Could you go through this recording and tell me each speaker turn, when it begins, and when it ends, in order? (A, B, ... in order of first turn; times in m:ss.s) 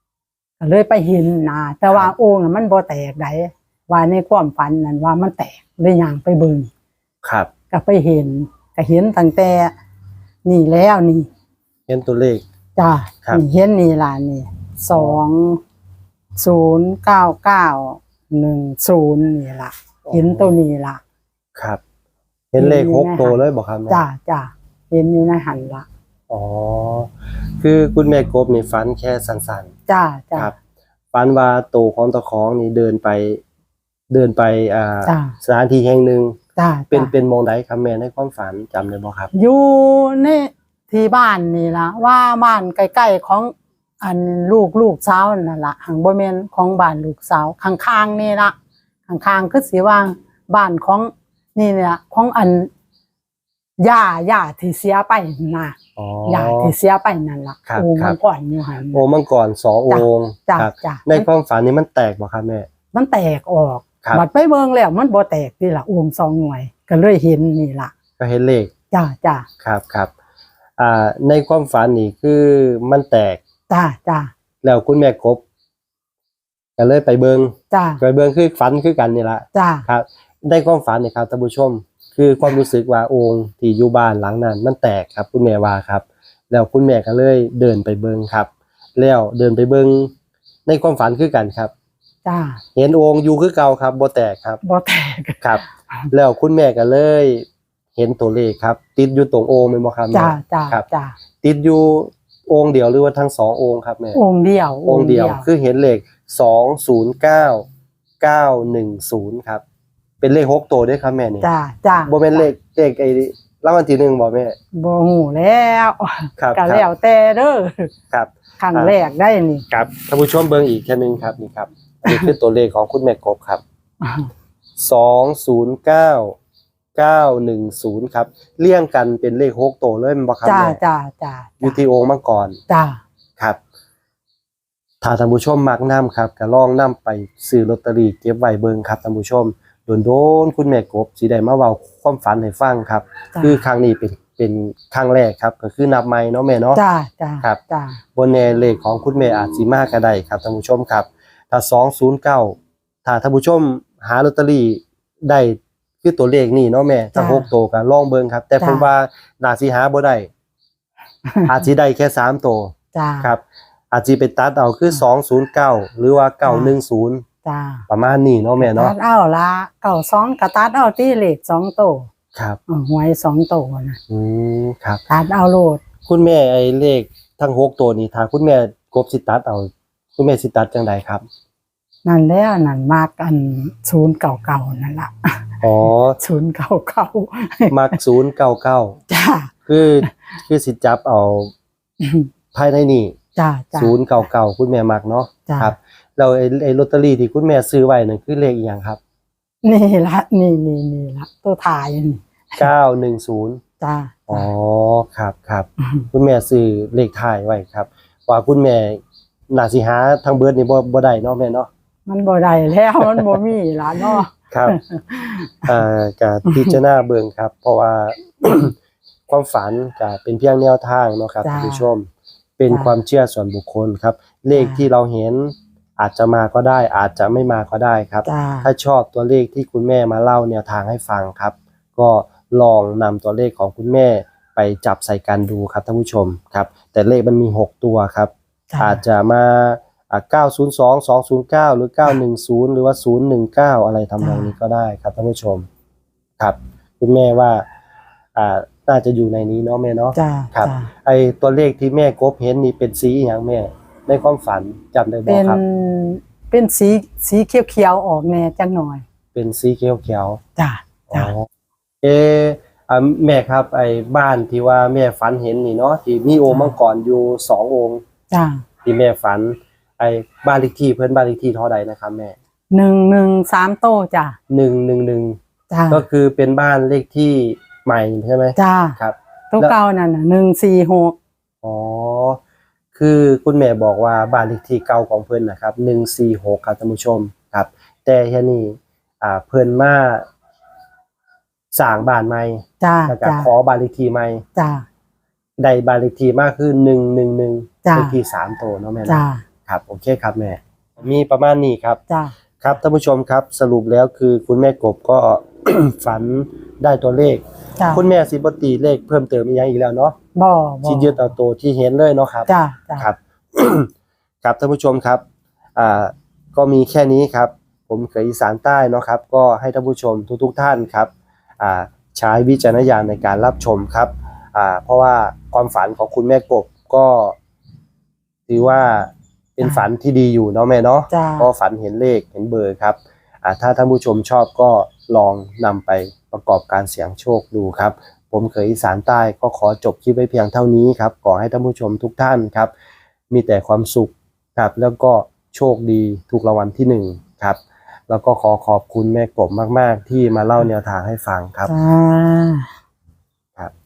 0:00.6-0:06.7 A
0:07.2-0:07.5 B
0:07.7-0:09.7 A
0:10.4-0:11.3 A
0:11.9-0:12.4 B
0:12.8-0:15.6 A
0:16.4-0:21.0 A
0:20.0-0:20.6 B
0:21.6-0:21.8 B
0:22.5-0:24.0 B
0:22.6-0:25.8 A
0:26.3-0:29.7 B
0:29.9-0:30.5 A
0:31.1-0:33.4 B
0:34.1-0:36.4 B
0:35.0-0:35.3 A
0:36.6-0:37.1 A
0:36.9-0:39.3 B
0:39.3-0:48.5 A
0:49.1-0:52.7 A
0:53.8-0:59.0 A
0:56.0-0:56.7 B
0:57.7-0:58.2 B
0:58.9-1:02.7 B
0:59.9-1:01.3 A
1:02.9-1:07.9 A
1:08.2-1:08.7 B
1:08.9-1:09.5 A
1:09.6-1:10.1 B
1:10.8-1:13.4 B
1:13.7-1:14.3 A
1:14.6-1:15.4 B
1:16.8-1:30.1 B
1:17.7-1:18.0 A
1:19.5-1:19.8 A
1:30.6-1:31.7 B
1:32.2-1:32.6 A
1:32.7-1:34.6 B
1:34.6-1:35.4 A
1:35.4-1:40.8 B
1:40.1-1:41.2 A
1:41.4-1:44.2 B
1:44.1-1:45.4 A
1:44.8-1:47.6 B
1:48.2-1:49.6 B
1:50.2-1:51.5 B
1:51.4-1:52.4 A
1:52.0-1:54.6 B
1:54.7-1:57.9 A
1:56.4-1:56.8 B
1:58.1-1:58.9 B
1:58.6-1:59.6 A
1:59.7-2:03.6 B
2:02.0-2:02.3 A
2:04.0-2:04.3 A
2:04.8-2:06.4 B
2:07.0-2:10.8 B
2:10.4-2:11.8 A
2:11.6-2:12.6 B
2:12.7-2:13.0 A
2:15.0-2:26.8 B
2:23.3-2:23.6 A
2:26.7-2:28.0 A
2:28.1-2:40.3 B
2:37.1-2:37.5 A
2:38.6-2:38.9 A
2:41.4-2:47.2 B
2:42.9-2:43.3 A
2:46.4-2:46.7 A
2:47.4-2:47.8 A
2:47.9-2:48.9 B
2:48.6-2:52.1 A
2:52.3-2:52.6 B
2:52.7-2:54.0 A
2:54.1-2:55.0 B
2:55.1-2:55.8 A
2:56.0-3:01.2 B
3:02.0-3:05.6 A
3:05.6-3:06.2 B
3:06.2-3:07.9 A
3:07.7-3:09.0 B
3:09.1-3:09.5 A
3:09.6-3:11.5 B
3:12.0-3:12.3 A
3:12.5-3:13.2 B
3:13.4-3:14.0 A
3:13.7-3:19.0 B
3:15.5-3:15.7 A
3:19.6-3:22.7 A
3:22.6-3:23.6 B
3:23.8-3:24.5 A
3:24.3-3:31.7 B
3:32.1-3:35.8 A
3:33.0-3:33.3 B
3:34.5-3:34.8 B
3:35.6-3:38.8 B
3:36.5-3:36.8 A
3:39.3-3:42.1 B
3:41.4-3:41.9 A
3:42.6-4:05.6 B
3:44.6-3:44.8 A
3:48.2-3:48.7 A
3:58.7-3:59.0 A
4:04.2-4:04.5 A
4:06.4-4:07.6 B
4:08.3-4:15.6 B
4:10.1-4:10.9 A
4:15.3-4:19.0 A
4:19.3-4:20.4 B
4:20.6-4:21.3 A
4:21.1-4:21.4 B
4:22.0-4:28.0 B
4:28.3-4:28.6 A
4:28.8-4:32.4 B
4:32.7-4:34.4 A
4:34.5-4:35.4 B
4:35.7-4:36.0 A
4:35.9-4:39.8 B
4:38.6-4:39.0 A
4:39.5-4:41.2 A
4:41.6-4:42.4 B
4:42.9-4:50.2 B
4:51.7-4:54.4 B
4:52.8-4:53.5 A
4:54.6-4:54.8 A
4:55.6-5:02.0 B
4:57.8-4:58.1 A
4:59.0-4:59.4 A
5:02.1-5:02.3 A
5:02.6-5:10.2 B
5:07.8-5:08.0 A
5:10.4-5:11.2 A
5:10.8-5:13.9 B
5:12.5-5:13.1 A
5:14.4-5:15.2 B
5:15.8-5:27.4 B
5:28.5-5:42.7 B
5:31.1-5:31.5 A
5:43.3-5:51.7 B
5:51.7-5:52.7 A